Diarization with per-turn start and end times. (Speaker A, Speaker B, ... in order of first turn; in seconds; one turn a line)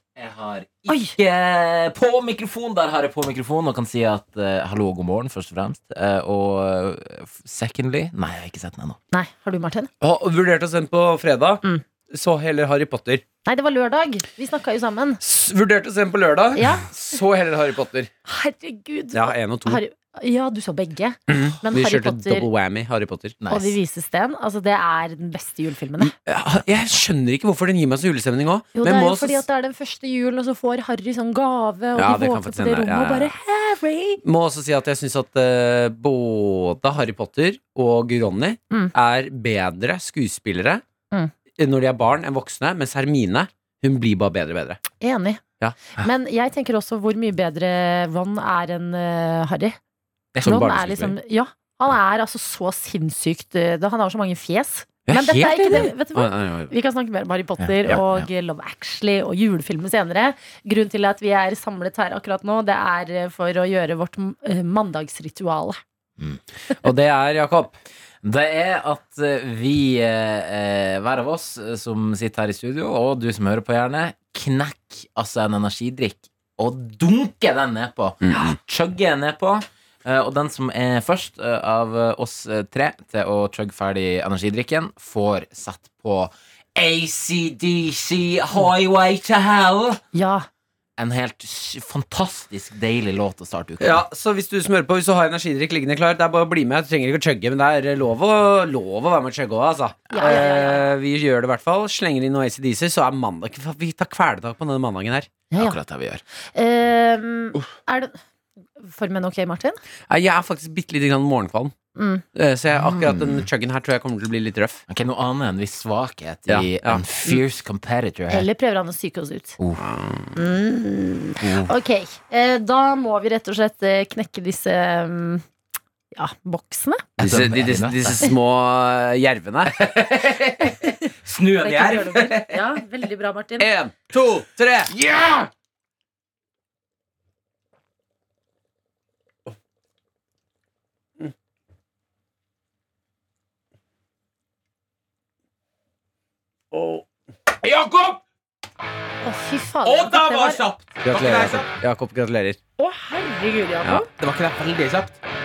Speaker A: 0.1-9.0
Speaker B: 0.9-1.1
Speaker B: 9.1-9.9
Speaker C: 10.0-13.2
Speaker B: 13.4-15.2
Speaker C: 15.2-18.1
Speaker B: 16.6-16.9
Speaker B: 18.3-22.5
Speaker C: 19.1-19.8
Speaker C: 21.3-23.4
Speaker A: 23.4-23.8
Speaker B: 23.5-26.1
Speaker C: 26.0-29.4
Speaker B: 28.8-34.2
Speaker C: 31.9-33.3
Speaker C: 34.2-40.8
Speaker C: 41.6-44.8
Speaker B: 45.0-45.4
Speaker B: 46.0-49.8
Speaker A: 50.3-50.8
Speaker C: 50.4-51.1
Speaker B: 50.4-65.8
Speaker C: 55.1-56.7
Speaker A: 57.6-58.3
Speaker C: 66.8-67.8
Speaker A: 68.2-90.0
Speaker C: 78.2-78.6
Speaker B: 90.1-90.5
Speaker A: 91.0-94.0
Speaker C: 93.8-105.3
Speaker B: 100.1-100.9
Speaker B: 105.5-105.8
Speaker A: 105.6-106.2
Speaker B: 106.5-108.2
Speaker B: 108.8-109.8
Speaker C: 110.1-111.7
Speaker B: 112.0-112.2
Speaker C: 112.3-114.8
Speaker A: 112.7-113.5
Speaker A: 114.9-118.5
Speaker C: 116.5-117.1
Speaker B: 118.3-119.6
Speaker C: 119.8-120.3
Speaker B: 120.3-125.4
Speaker B: 126.1-127.0
Speaker A: 127.2-128.2
Speaker C: 127.2-129.8
Speaker A: 129.7-132.8
Speaker B: 131.6-133.7
Speaker C: 133.6-134.9
Speaker A: 134.9-135.5
Speaker C: 146.7-147.0
Speaker A: 147.6-148.2
Speaker B: 149.2-150.6
Speaker A: 149.8-151.7
Speaker C: 151.0-152.6
Speaker B: 152.8-154.1
Speaker A: 154.2-155.2